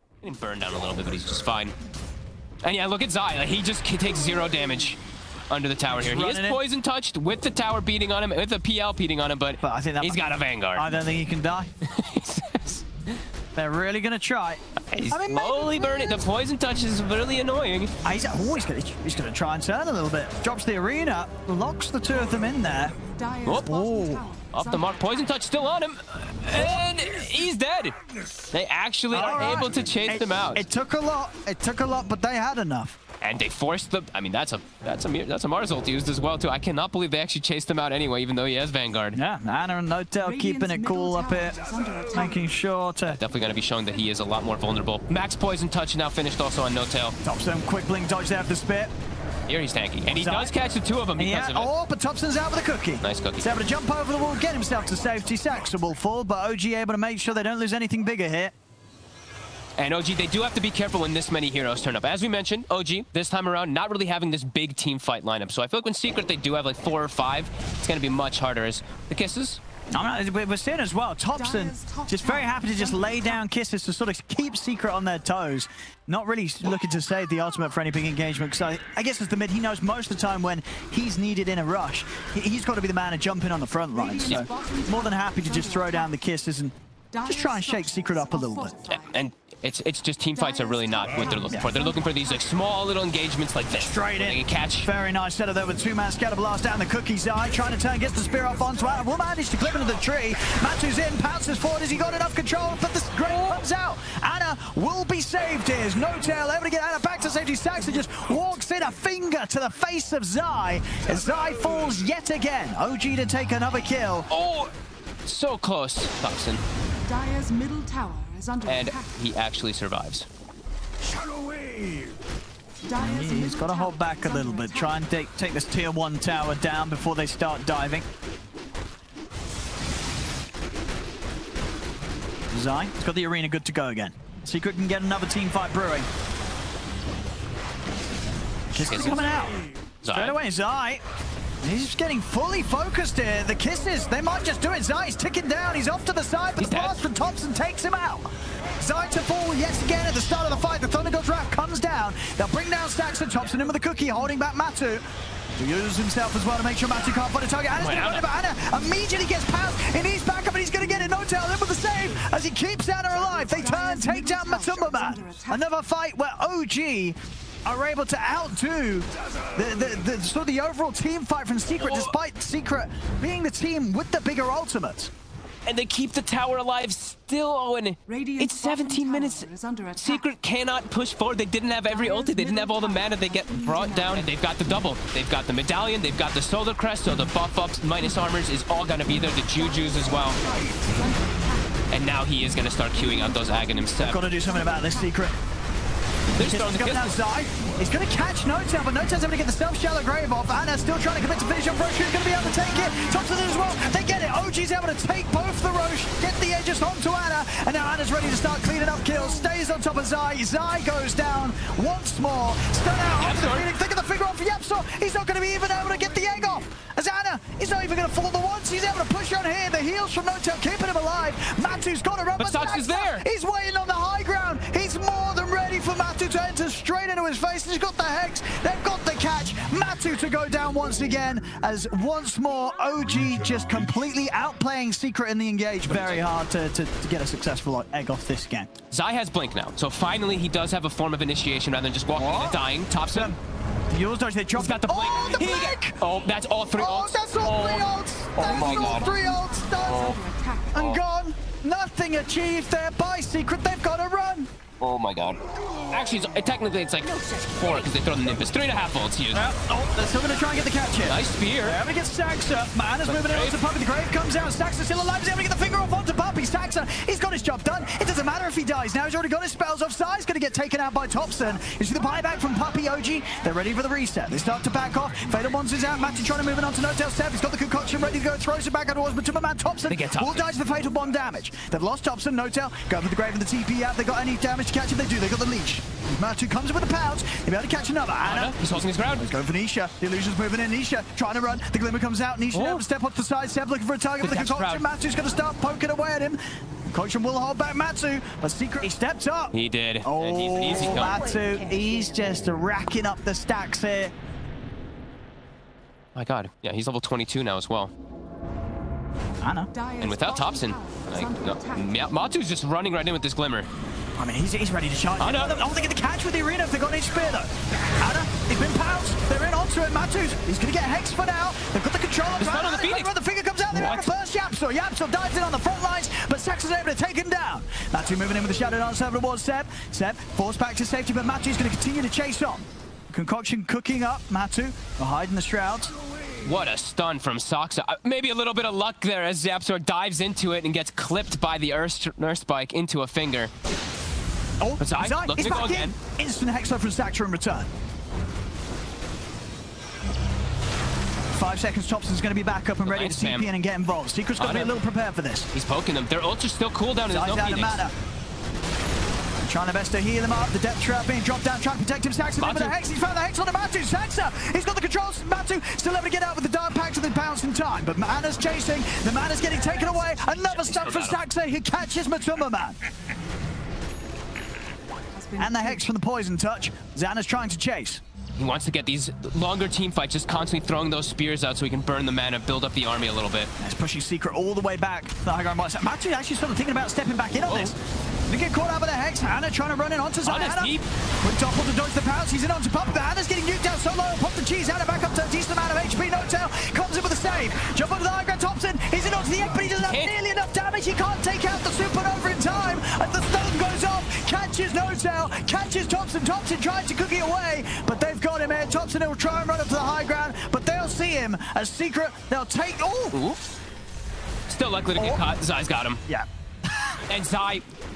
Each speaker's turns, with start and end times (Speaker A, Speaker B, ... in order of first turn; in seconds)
Speaker A: 0.2-1.7, 2.6-5.0, 5.5-10.9, 11.8-12.8, 14.9-17.9, 23.4-23.7, 24.5-27.9, 28.5-30.6, 33.2-39.2, 43.0-47.1, 49.5-51.7, 53.0-53.5, 59.8-69.6, 88.9-94.9, 114.3-114.7, 115.2-116.6, 118.7-120.3, 138.8-139.2, 140.0-140.4, 146.6-147.0, 157.7-158.2, 171.8-172.1, 175.7-190.4, 191.9-194.2, 196.3-197.2, 213.2-213.7, 222.4-223.2, 235.8-236.2, 238.9-243.3, 244.5-249.1, 249.8-250.2, 250.7-251.0, 254.8-259.5, 261.0-261.8, 263.0-263.6, 279.9-280.4, 288.2-289.3, 292.5-292.8, 294.2-294.8, 299.5-301.2, 306.1-307.9, 310.0-313.7, 315.2-315.6, 322.4-323.1, 323.7-324.1, 336.4-343.5, 344.8-345.9, 352.8-353.5, 354.4-354.8, 355.5-357.9, 362.4-362.8, 370.2-371.2, 378.4-383.5, 387.4-387.7, 390.2-390.9, 399.6-400.1, 413.1-413.4, 414.5-416.0, 417.1-417.6
Speaker B: 5.9-6.6, 9.6-10.2, 10.7-11.7, 13.5-16.2, 18.0-22.9, 23.6-24.2, 29.1-33.0, 39.1-41.6, 42.1-43.2, 47.2-48.9, 50.1-50.5, 51.2-58.5, 69.9-86.7, 87.2-88.7, 93.8-114.3, 123.0-128.1, 132.5-136.1, 138.7-139.5, 140.1-141.0, 141.6-155.0, 155.6-175.1, 194.0-195.4, 196.4-238.7, 242.1-243.4, 243.9-246.0, 246.8-250.2, 250.7-254.5, 259.3-304.1, 309.4-309.7, 314.2-335.9, 344.6-347.7, 351.3-355.5, 357.1-357.9, 359.4-372.8, 375.4-378.0, 383.6-413.2, 414.9-415.2, 416.1-417.0
Speaker C: 23.1-25.3, 40.2-42.3, 71.3-73.4, 83.9-86.1, 87.1-89.2, 90.3-92.4, 117.0-119.0, 122.8-125.0, 163.5-165.6, 178.1-180.2, 181.9-184.2, 189.8-191.8, 192.9-193.9, 194.5-195.0, 248.4-250.7, 309.7-311.9, 375.1-375.8